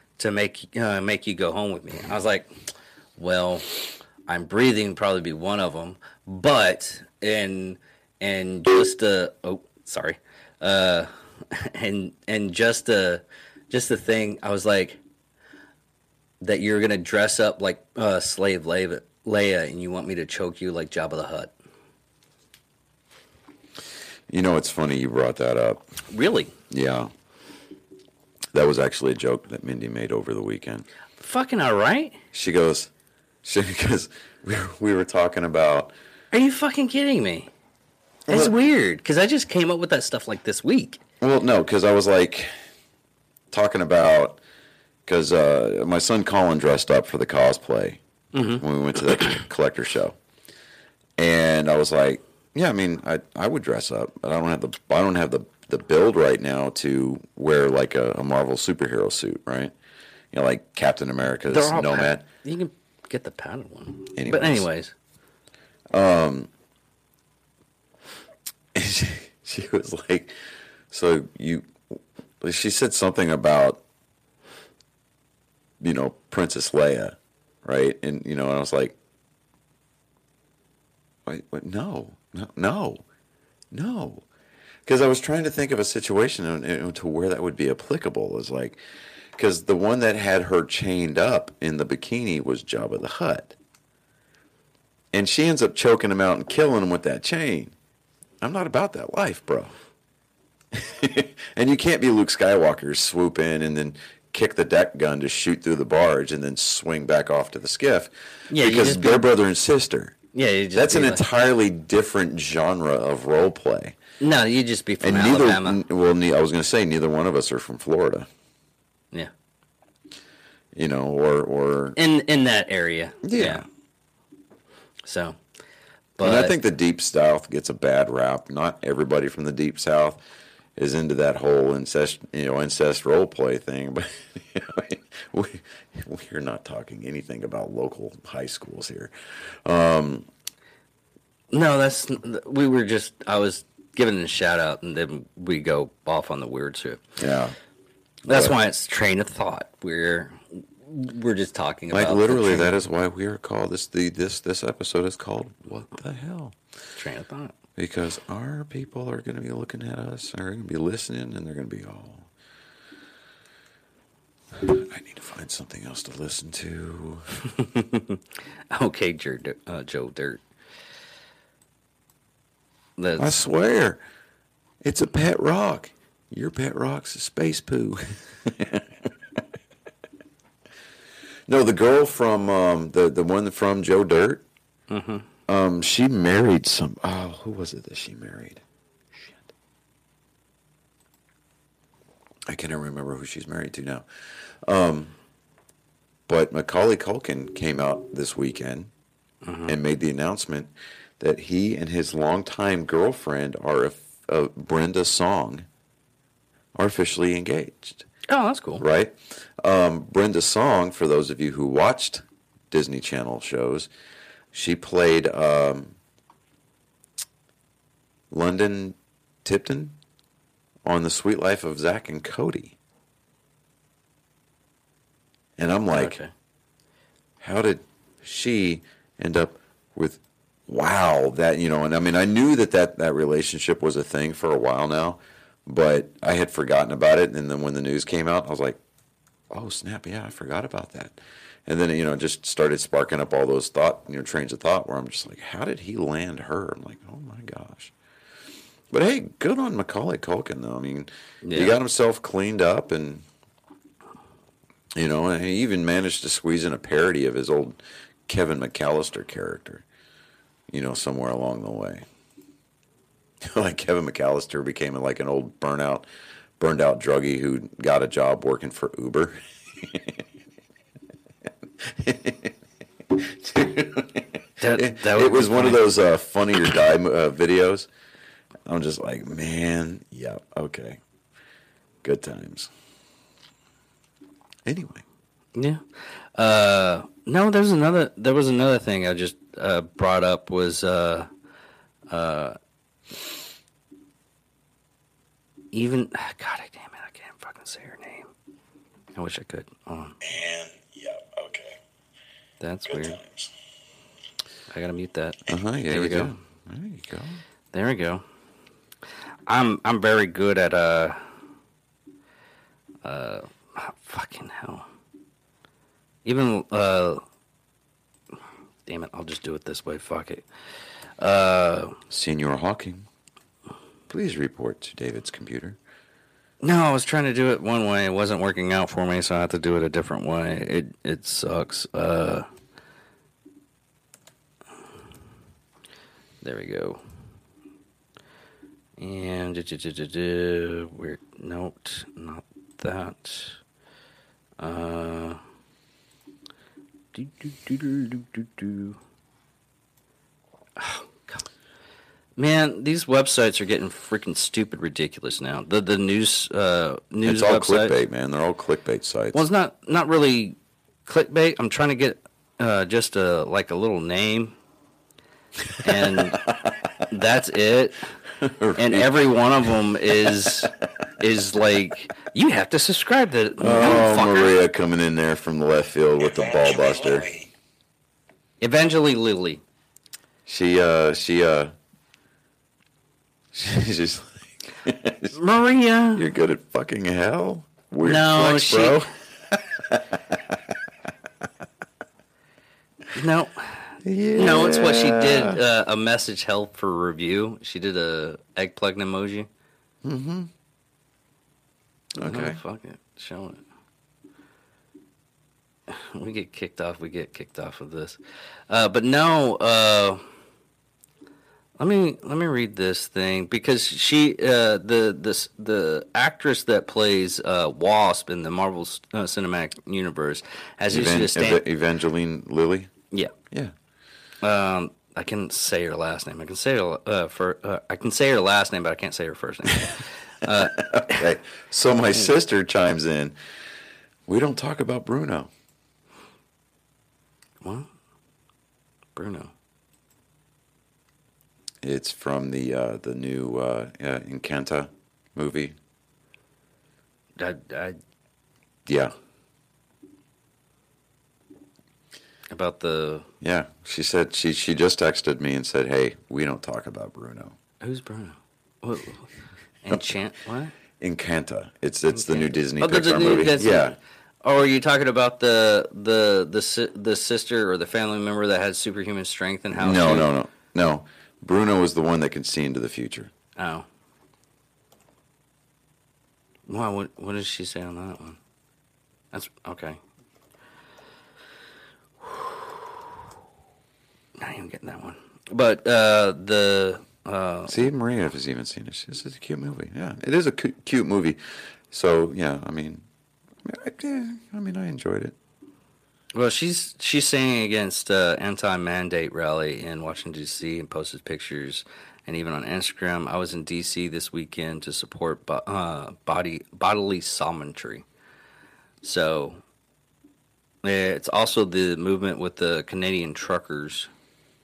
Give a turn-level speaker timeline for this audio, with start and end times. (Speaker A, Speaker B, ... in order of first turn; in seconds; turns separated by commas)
Speaker A: 0.2-2.5, Speaker A: 3.2-15.0, Speaker A: 16.4-21.5, Speaker B: 24.3-25.8, Speaker A: 26.1-26.5, Speaker B: 26.7-27.1, Speaker B: 28.5-30.9, Speaker A: 31.2-32.2, Speaker B: 32.3-32.9, Speaker B: 33.4-35.9, Speaker A: 36.3-37.5, Speaker B: 38.3-38.5, Speaker A: 38.3-41.0, Speaker B: 41.2-42.5, Speaker B: 43.5-44.4, Speaker B: 45.0-48.0, Speaker A: 48.3-49.4, Speaker B: 48.5-50.2, Speaker B: 51.2-59.7, Speaker B: 60.3-62.2, Speaker A: 61.5-64.9, Speaker B: 64.2-64.7, Speaker B: 65.9-66.5, Speaker B: 68.7-70.3, Speaker B: 70.9-73.8, Speaker B: 75.8-79.0, Speaker B: 81.2-83.0, Speaker B: 83.7-84.2, Speaker B: 84.8-88.8, Speaker B: 89.3-93.5, Speaker B: 95.1-97.7, Speaker B: 98.4-99.7, Speaker B: 100.7-110.2, Speaker A: 108.5-109.3, Speaker A: 110.3-111.2, Speaker B: 110.7-114.0, Speaker A: 114.2-115.8, Speaker B: 115.0-118.3, Speaker B: 120.7-122.0, Speaker A: 122.0-123.6, Speaker B: 123.2-123.6, Speaker A: 125.0-125.4, Speaker A: 126.2-126.6, Speaker B: 126.2-130.2, Speaker B: 130.8-140.3, Speaker A: 141.5-147.0, Speaker B: 147.2-147.5, Speaker B: 148.3-148.6, Speaker A: 148.3-152.7, Speaker B: 151.9-156.6, Speaker A: 156.9-157.6, Speaker B: 157.8-162.3, Speaker B: 164.5-167.5, Speaker A: 167.5-170.4, Speaker A: 173.0-173.4, Speaker B: 173.2-174.0, Speaker B: 174.8-179.4, Speaker B: 181.5-184.4, Speaker A: 184.9-185.2, Speaker B: 185.5-188.6, Speaker B: 189.1-189.5, Speaker B: 192.5-195.1, Speaker B: 196.3-198.9, Speaker A: 199.4-199.8, Speaker B: 199.7-205.7, Speaker B: 206.7-208.0, Speaker A: 208.3-208.8, Speaker B: 208.8-213.9, Speaker B: 214.5-215.9, Speaker B: 218.3-219.9, Speaker B: 220.8-222.8, Speaker B: 225.6-226.2, Speaker A: 225.9-226.3, Speaker B: 227.4-238.8, Speaker B: 239.5-247.9, Speaker B: 248.9-253.2, Speaker A: 251.4-251.8, Speaker B: 254.9-259.8, Speaker B: 260.7-262.1, Speaker B: 263.4-266.0, Speaker B: 266.6-270.2, Speaker B: 271.8-272.5, Speaker B: 273.1-277.9, Speaker A: 274.6-275.8, Speaker B: 278.6-281.0, Speaker B: 282.0-282.7, Speaker B: 284.6-285.0, Speaker A: 285.6-285.8, Speaker A: 286.3-291.3, Speaker A: 292.1-292.6, Speaker A: 295.7-298.3, Speaker A: 299.1-300.2, Speaker B: 300.2-301.7, Speaker A: 302.6-303.2, Speaker A: 304.7-306.4, Speaker B: 305.5-307.4, Speaker A: 307.7-308.2, Speaker A: 309.5-311.2, Speaker A: 313.0-314.9, Speaker A: 316.2-317.2, Speaker A: 318.9-320.4, Speaker A: 321.2-322.0, Speaker B: 322.1-323.1, Speaker B: 324.1-325.8, Speaker A: 326.6-332.5, Speaker A: 336.4-337.0, Speaker A: 339.0-343.6, Speaker A: 344.6-345.4, Speaker A: 347.1-349.0, Speaker A: 350.8-351.4, Speaker A: 352.4-358.0, Speaker B: 357.2-359.4, Speaker A: 359.3-364.6, Speaker B: 365.6-367.0, Speaker A: 365.8-366.4, Speaker A: 367.1-368.1, Speaker B: 368.4-370.5, Speaker A: 368.8-374.6, Speaker B: 373.6-377.4, Speaker A: 378.6-379.6, Speaker B: 380.4-381.7, Speaker B: 383.5-385.3, Speaker A: 385.3-386.2, Speaker B: 386.1-390.8, Speaker A: 388.0-389.0, Speaker A: 393.1-399.5, Speaker B: 394.0-395.6, Speaker B: 400.0-400.5, Speaker B: 402.1-402.6, Speaker A: 402.2-403.6, Speaker A: 405.9-410.2, Speaker A: 411.8-421.6, Speaker B: 420.9-422.9, Speaker A: 424.4-431.2, Speaker B: 430.4-433.3, Speaker B: 434.3-435.5, Speaker A: 437.6-437.9, Speaker A: 439.1-439.5, Speaker B: 441.8-445.8, Speaker A: 447.4-448.0, Speaker B: 448.9-449.1, Speaker A: 452.5-453.3, Speaker B: 453.4-457.6, Speaker A: 457.8-460.8, Speaker B: 461.0-463.9, Speaker A: 462.1-470.3, Speaker B: 469.7-473.3, Speaker A: 473.6-473.9, Speaker A: 476.7-478.4, Speaker A: 479.3-480.0, Speaker A: 482.2-482.7, Speaker A: 484.4-487.9, Speaker B: 487.7-493.0, Speaker B: 493.6-495.3, Speaker A: 496.3-508.1, Speaker A: 509.0-509.6, Speaker A: 510.8-514.1